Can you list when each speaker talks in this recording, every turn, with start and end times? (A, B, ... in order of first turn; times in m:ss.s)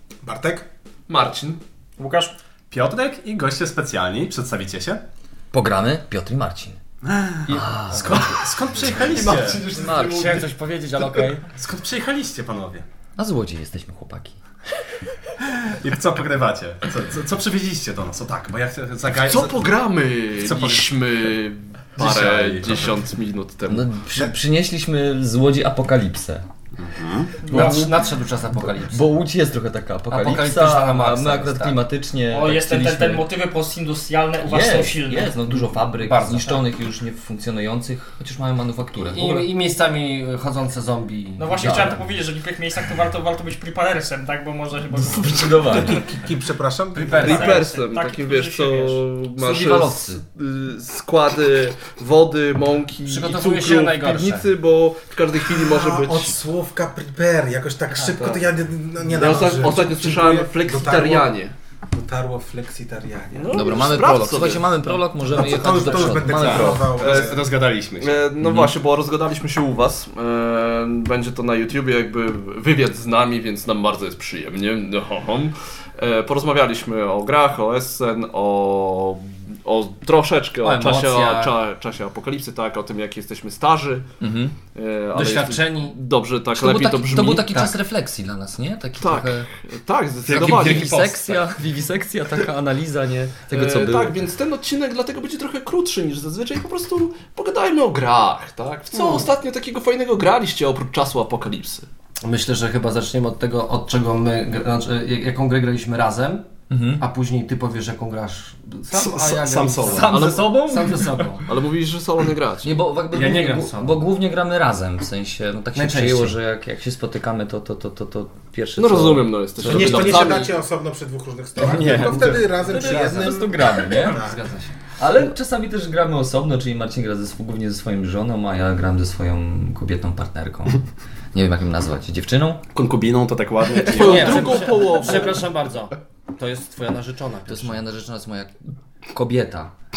0:00.2-0:00.7 A
0:01.1-0:01.6 B
0:02.0-0:02.4 C
0:02.7-0:05.0 D
0:05.5-0:06.8 E
0:07.0-0:09.8 D
0:07.5-0:08.2 F
0:07.5-0:08.4 E
0:08.8-0:10.5 B
0:09.7-0:10.4 E
0:09.9-0:11.5 F
0:11.5-0:12.8 D
0:13.2-0:14.4 E
0:15.6-0:19.7 D
0:19.1-0:23.9 B
0:20.3-0:21.0 D
0:22.0-0:23.0 D
0:23.7-0:26.5 E
0:26.8-0:27.4 D
0:27.5-0:27.8 C
0:27.5-0:28.0 E
0:27.5-0:29.0 F
0:28.6-0:33.3 E
0:30.1-0:31.8 F
0:32.3-0:35.4 C
0:34.4-0:39.5 E
0:36.0-0:36.7 F
0:39.1-0:42.0 F
0:41.4-0:45.9 C
0:41.6-0:42.0 E
0:45.0-0:46.0 B
0:45.2-0:46.0 E
0:45.7-0:47.5 A
0:47.0-0:47.6 F
0:47.1-0:49.0 C
0:47.2-0:56.4 B
0:49.4-0:50.2 E
0:53.1-0:54.5 F
0:55.5-1:01.3 A
0:59.1-1:01.5 B
1:01.9-1:03.6 A
1:03.3-1:04.9 B
1:03.5-1:06.8 E
1:05.3-1:07.4 A
1:06.1-1:08.3 D
1:06.2-1:07.4 B
1:08.0-1:24.1 B
1:08.4-1:08.7 E
1:20.6-1:21.5 F
1:24.2-1:24.6 E
1:24.8-1:27.7 B
1:25.1-1:26.0 F
1:26.5-1:29.5 E
1:29.0-1:31.1 B
1:30.2-1:34.3 E
1:30.3-1:31.4 F
1:33.5-1:41.9 B
1:42.2-1:46.5 F
1:46.7-1:47.0 E
1:47.0-1:51.5 F
1:48.9-1:50.3 D
1:49.9-1:52.7 B
1:52.6-2:00.4 E
1:53.1-1:54.0 F
1:55.8-1:56.4 F
1:58.8-2:00.5 B
1:59.6-2:04.4 A
2:01.6-2:04.2 E
2:02.8-2:03.0 F
2:04.0-2:04.8 F
2:05.0-2:12.6 E
2:12.7-2:14.7 D
2:13.9-2:15.5 B
2:13.9-2:17.8 F
2:17.5-2:19.7 E